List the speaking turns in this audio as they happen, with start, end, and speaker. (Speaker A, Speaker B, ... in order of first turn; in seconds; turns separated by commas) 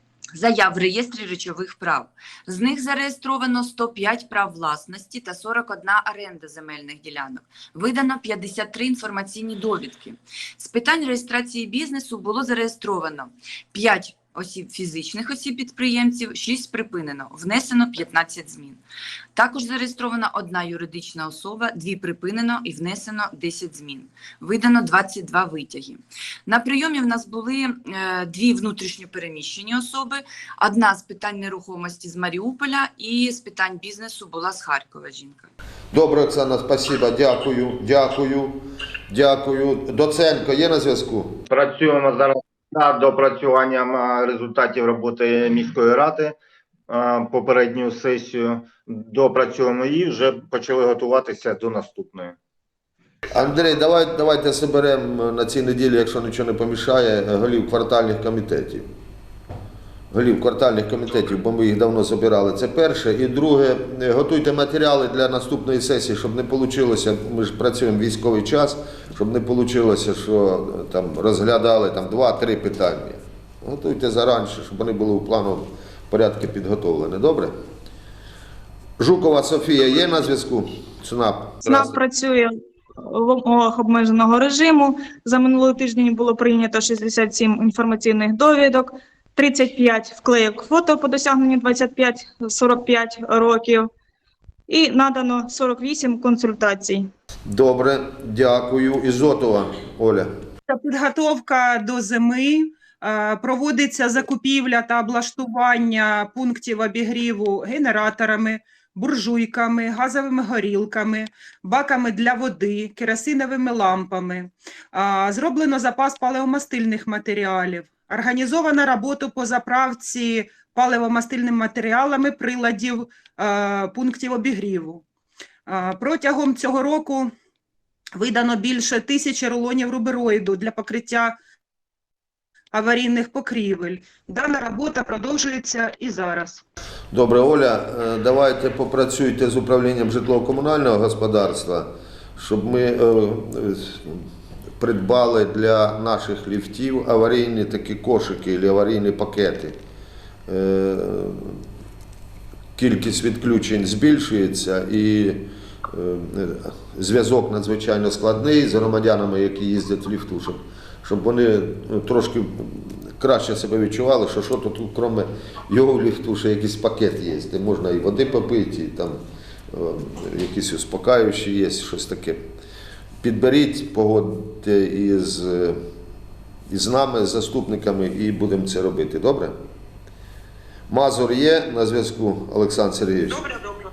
Speaker A: 0.3-18.8, Speaker A: 19.3-35.5, Speaker B: 35.9-41.4, Speaker C: 41.5-46.4, Speaker C: 46.9-52.4, Speaker B: 53.3-58.9, Speaker B: 60.1-77.5, Speaker B: 79.0-82.0, Speaker D: 81.6-93.9, Speaker D: 94.7-97.1, Speaker B: 97.5-100.3, Speaker E: 100.7-125.0, Speaker E: 125.7-127.3, Speaker E: 128.2-131.3, Speaker E: 132.7-136.6, Speaker B: 137.1-144.2, Speaker B: 144.8-149.8, Speaker B: 150.5-151.6, Speaker B: 152.8-172.4, Speaker B: 173.2-175.8, Speaker B: 176.7-179.6, Speaker B: 180.9-183.6